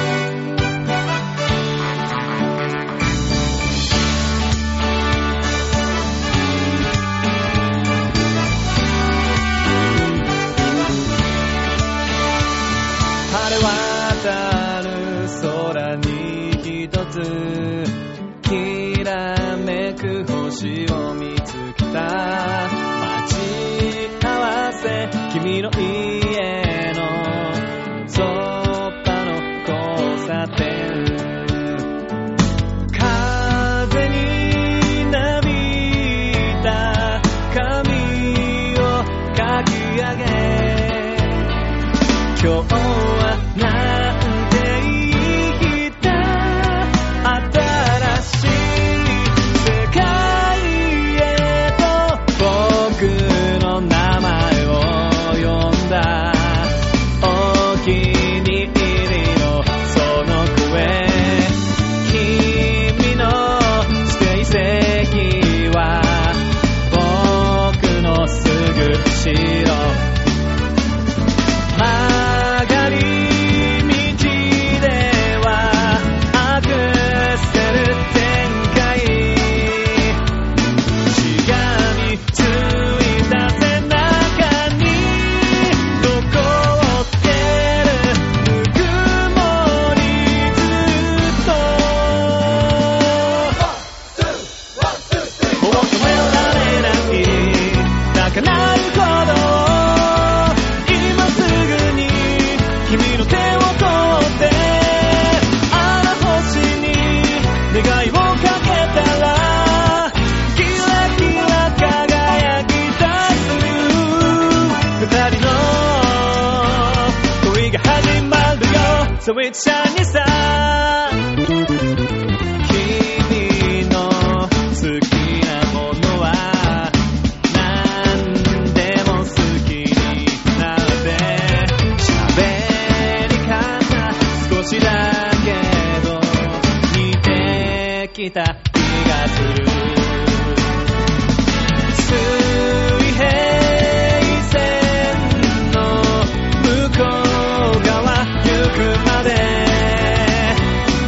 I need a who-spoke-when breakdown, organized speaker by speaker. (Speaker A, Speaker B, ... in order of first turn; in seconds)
Speaker A: 13.3-31.9, 32.9-41.5, 42.3-70.1, 71.7-80.2, 81.0-93.6, 95.5-121.2, 122.6-140.6, 141.9-150.7